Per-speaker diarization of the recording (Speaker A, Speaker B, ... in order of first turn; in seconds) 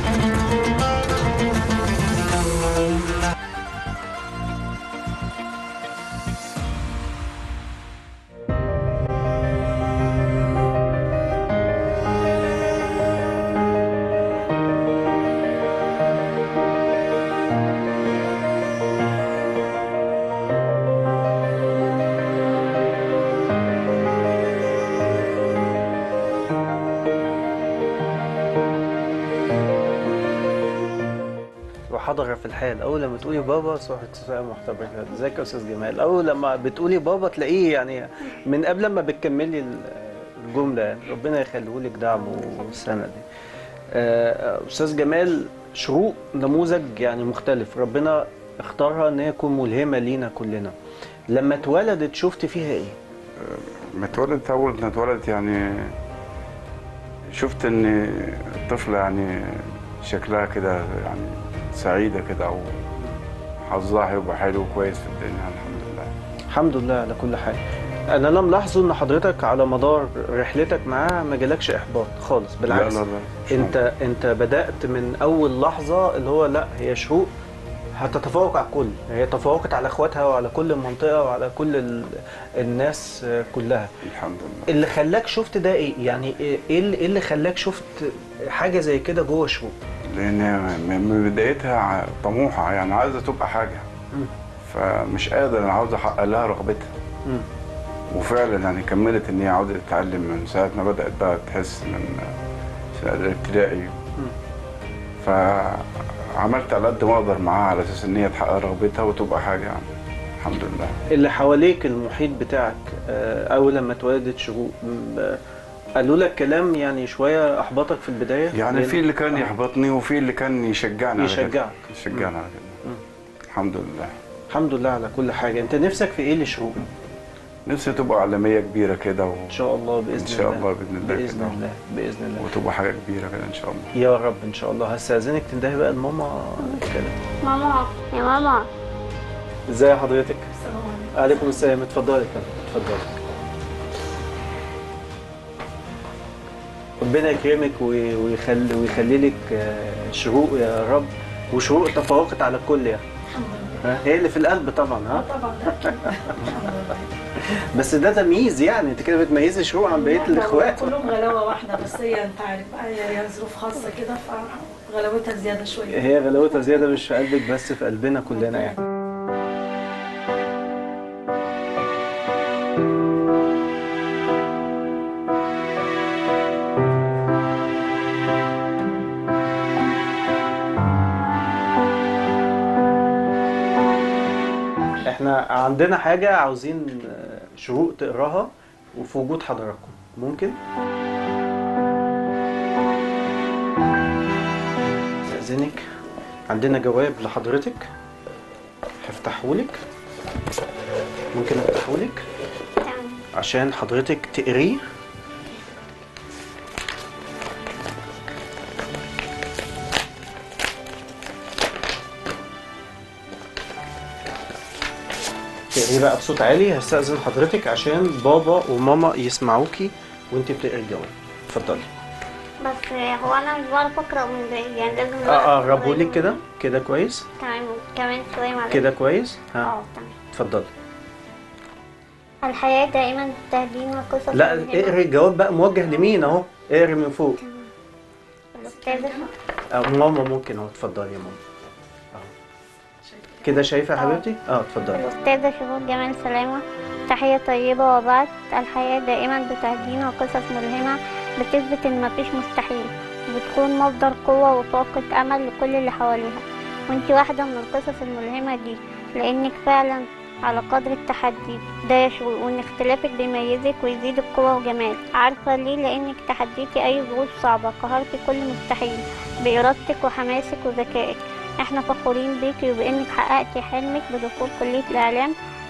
Speaker A: 31.9-43.2, 43.9-50.7, 51.3-53.0, 66.5-67.6, 68.1-77.3, 78.0-83.9, 84.7-89.8, 111.1-115.4, 116.0-119.5, 121.2-122.3, 124.5-126.8, 129.5-132.5, 133.9-137.2, 139.7-140.5, 141.1-143.2, 147.0-153.0, 153.8-156.6, 157.4-161.0, 165.9-168.8, 185.1-190.6, 195.2-195.8, 196.5-197.9, 199.0-199.8, 201.3-202.2, 203.4-204.8, 215.7-221.9, 225.2-227.3, 228.7-229.7, 230.3-230.7, 234.3-237.4, 239.7-241.4, 243.4-245.1
Speaker B: 42.3-42.8, 137.4-138.7, 202.8-203.2, 222.6-226.4, 227.4-228.9, 229.6-230.2, 232.4-235.0, 237.4-237.7, 238.6-239.3, 244.9-275.3
Speaker C: 53.4-55.9, 57.3-62.8, 63.7-66.1, 72.7-73.8, 84.0-84.7, 90.1-93.9, 94.6-96.9, 98.1-102.3, 103.0-103.9, 105.2-109.9, 110.4-111.0, 118.5-122.8, 123.5-124.1, 127.7-129.5, 130.2-131.6, 132.4-133.9
Speaker D: 140.5-141.7, 153.3-154.0, 155.1-157.1, 159.9-166.0, 235.8-236.3, 238.6-239.3, 243.0-243.7